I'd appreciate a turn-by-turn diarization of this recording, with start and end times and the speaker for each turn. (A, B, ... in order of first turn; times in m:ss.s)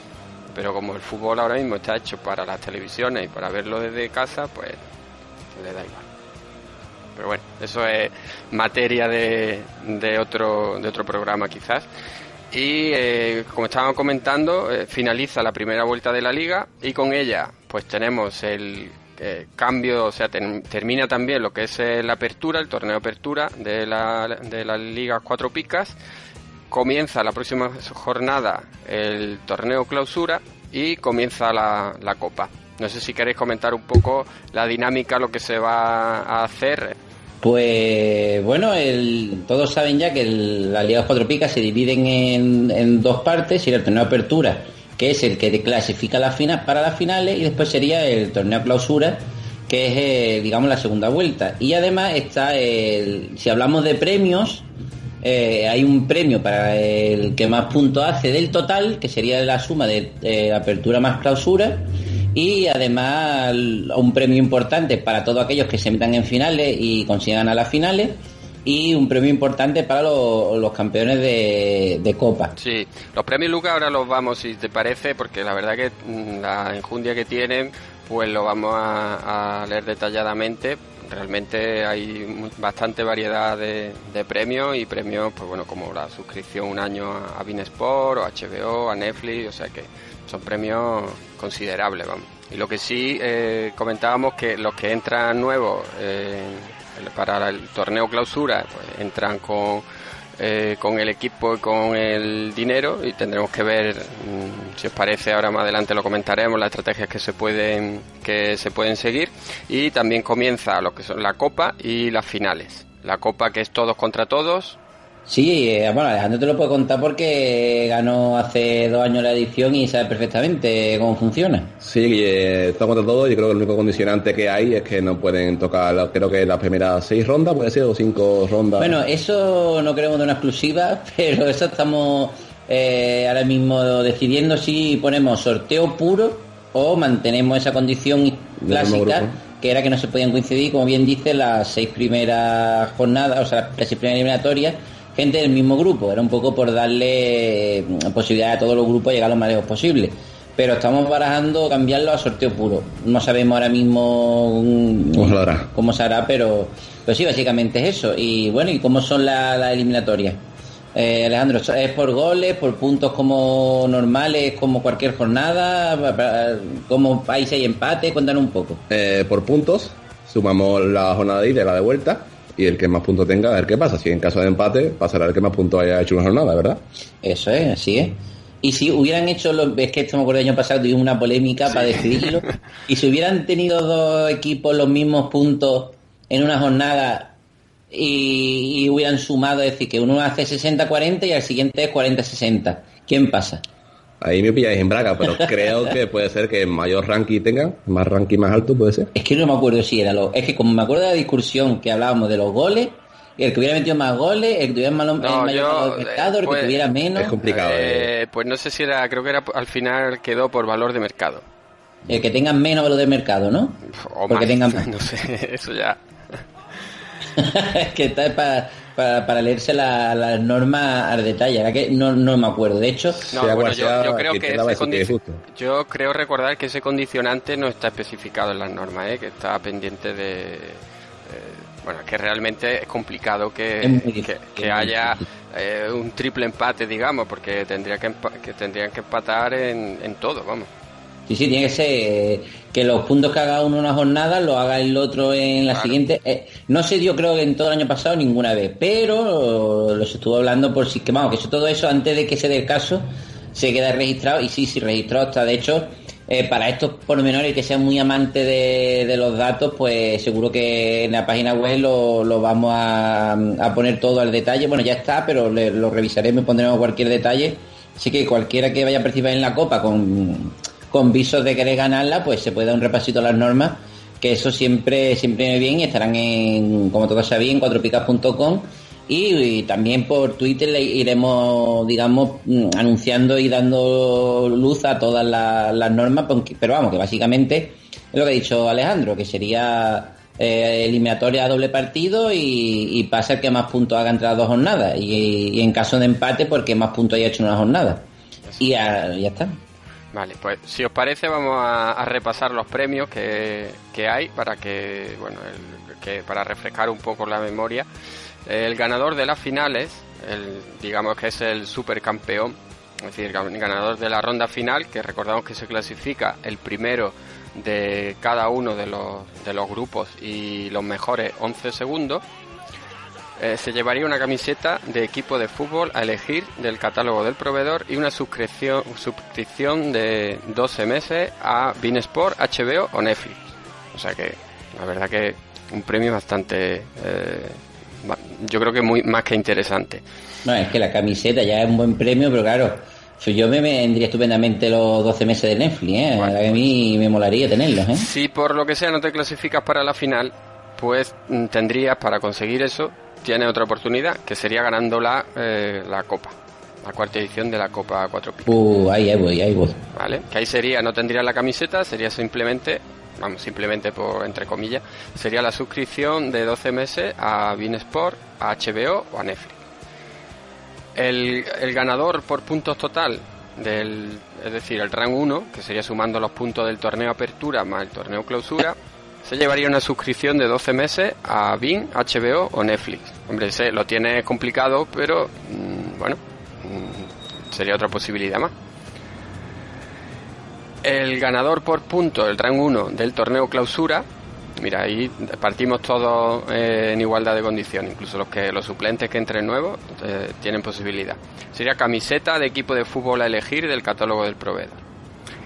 0:00.5-0:04.8 A
0:05.5-0:06.1 A
0:07.2-0:11.9 A
0:12.5-0:26.0 A
0:26.7-0:37.0 A
0:37.4-0:54.7 B
0:55.2-1:12.5 B
1:12.6-1:39.8 A
1:40.4-1:54.8 A
1:55.3-2:01.7 B
2:01.8-2:09.0 C
2:08.8-2:40.4 B
2:18.6-2:19.4 C
2:35.2-2:35.7 C
2:40.9-2:48.8 B
2:48.9-2:56.8 C
2:57.2-3:07.3 B
3:07.9-3:13.6 B
3:14.2-3:19.1 C
3:15.4-3:15.7 B
3:19.1-3:27.4 B
3:25.2-3:26.9 A
3:27.2-3:28.1 C
3:27.5-3:31.4 A
3:32.1-3:34.8 B
3:33.9-3:36.4 A
3:37.4-3:43.2 B
3:43.3-4:00.7 A
3:43.3-3:45.4 C
3:53.8-3:55.2 B
4:01.3-4:58.1 B
4:05.7-4:06.0 A
4:58.6-4:59.6 B
5:00.1-5:07.9 A
5:08.5-5:22.2 A
5:23.4-5:33.4 A
5:33.9-5:40.0 A
5:40.4-5:48.1 B
5:46.2-5:46.7 A
5:48.0-5:58.5 A
5:58.5-5:59.8 B
5:59.9-6:09.6 A
6:11.0-6:28.5 A
6:30.8-6:34.1 A
6:34.6-6:44.8 A